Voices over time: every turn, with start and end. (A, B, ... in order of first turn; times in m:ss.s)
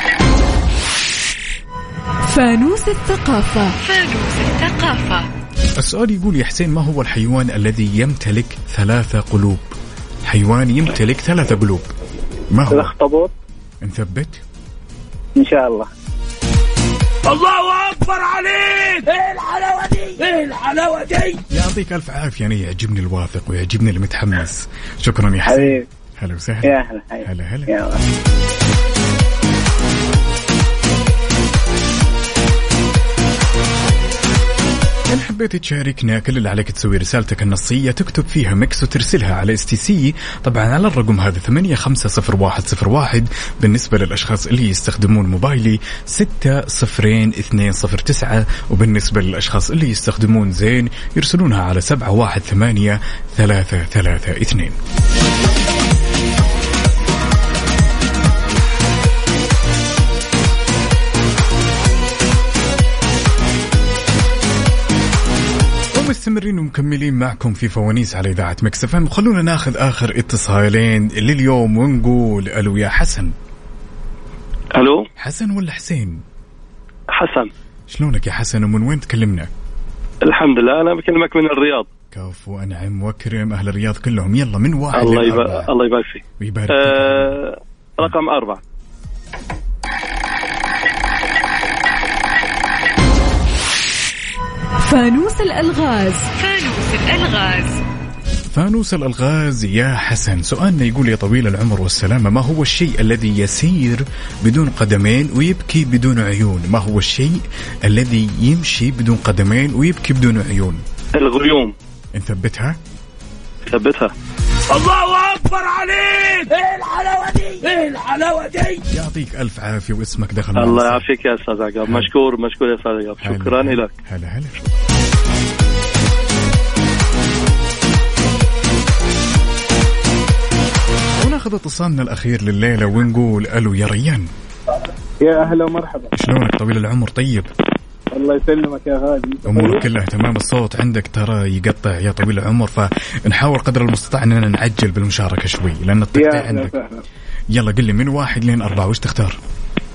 0:02.3-0:03.7 A
0:03.8-0:05.3 B
0:05.8-0:09.7 C
0:10.3-0:11.9 C
0:12.5-0:12.9 C
0:12.7-0:13.3 D
0:13.8-0:14.4 C
0:15.4-0:15.9 D
0:17.3-0:21.4 E
0:21.5-0:26.7 C
0:25.4-0:25.8 D
0:26.7-0:28.0 D
0:27.2-0:27.7 C
0:35.1-0:54.8 C
1:05.9-1:13.3 C
1:14.8-1:15.0 F
1:15.2-1:16.2 C
1:17.2-1:17.5 F
1:17.9-1:19.5 C
1:20.3-1:21.9 F
1:22.1-1:25.7 C
1:25.0-1:26.2 F
1:26.4-1:27.4 C
1:26.8-1:27.3 F
1:28.0-1:28.6 F
1:34.8-1:36.3 A
1:36.4-1:37.8 B
1:38.5-1:50.8 C
1:51.2-1:51.7 F
1:51.3-1:51.7 E
1:52.2-1:52.8 C
1:53.7-1:54.1 F
1:53.8-1:54.1 E
1:54.7-1:58.8 E
1:58.9-2:01.0 C
2:00.6-2:03.9 F
2:01.8-2:02.1 C
2:02.1-2:03.7 E
2:03.2-2:04.8 C
2:11.2-2:14.3 C
2:15.2-2:16.1 G
2:16.2-2:17.5 C
2:18.1-2:19.8 G
2:19.5-2:26.7 C
2:26.2-2:27.0 G
2:27.5-2:29.4 C